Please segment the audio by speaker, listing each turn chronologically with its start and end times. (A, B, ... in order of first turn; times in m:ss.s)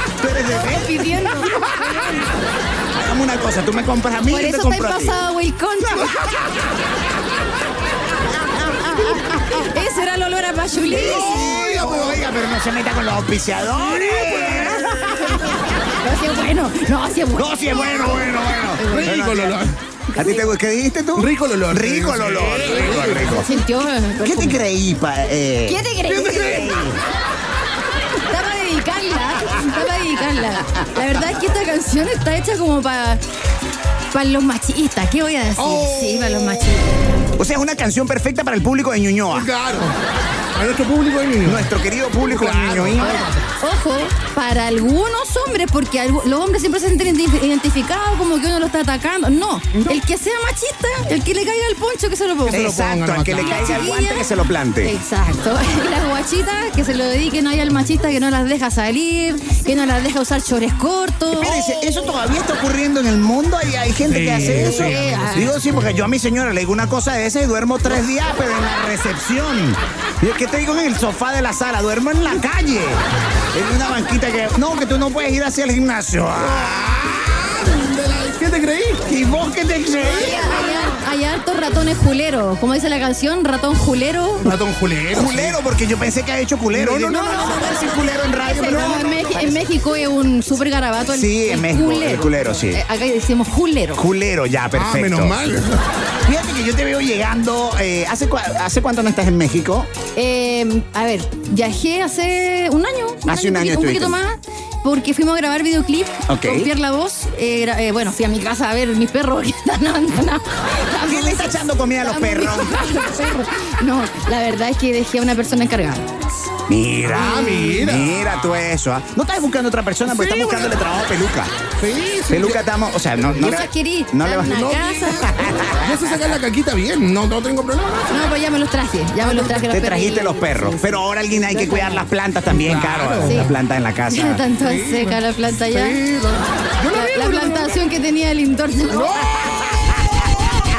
0:00.2-0:01.2 A
0:00.5-0:02.3 B
0:01.5-0:02.2 C
0:02.9-0:05.2 A
0:04.3-0:06.2 B
0:08.6-0:09.4 A
0:09.3-0:11.6 B
0:10.9-0:12.2 C
0:10.9-0:15.6 A
0:13.8-0:15.6 C
0:16.0-0:19.2 B
0:17.4-0:19.6 A
0:18.8-0:19.8 C
0:20.1-0:20.5 B
0:20.2-0:23.5 A
0:21.2-0:23.4 C
0:23.2-0:24.6 B
0:24.2-0:27.0 A
0:25.7-0:26.6 B
0:26.1-0:26.8 C
0:28.2-0:33.2 B
0:34.1-0:37.0 B
0:35.6-0:36.7 C
0:37.4-0:39.5 A
0:39.3-0:40.0 C
0:40.5-0:41.7 C
0:41.4-0:43.3 A
0:42.2-0:43.5 C
0:43.0-0:52.7 B
0:49.7-0:50.0 C
0:52.4-0:53.9 C
0:52.5-0:55.0 A
0:53.4-0:54.3 B
0:54.8-1:01.6 B
1:01.3-1:17.1 A
1:04.0-1:05.6 C
1:04.5-1:05.6 B
1:16.3-1:19.2 C
1:19.1-1:20.7 A
1:20.0-1:20.9 C
1:20.2-1:24.5 B
1:24.4-1:25.6 C
1:25.1-1:29.6 A
1:26.7-1:29.0 C
1:27.3-1:34.0 B
1:31.1-1:32.8 A
1:34.0-1:35.4 A
1:34.7-1:35.8 C
1:36.3-1:39.9 A
1:40.2-1:56.1 B
1:43.3-1:44.2 A
1:46.3-1:46.7 A
1:51.1-1:53.0 A
1:56.7-2:01.5 A
1:57.0-1:58.6 C
1:57.2-1:57.7 B
2:00.1-2:00.7 C
2:01.8-2:02.6 C
2:02.3-2:04.7 A
2:03.3-2:03.6 C
2:03.4-2:05.4 B
2:04.4-2:08.3 C
2:05.2-2:06.2 A
2:08.1-2:12.0 B
2:09.4-2:14.4 A
2:12.5-2:13.5 C
2:13.2-2:13.5 B
2:14.1-2:16.0 B
2:14.6-2:15.2 C
2:15.7-2:17.8 C
2:16.9-2:19.2 B
2:18.9-2:20.0 C
2:19.5-2:20.0 A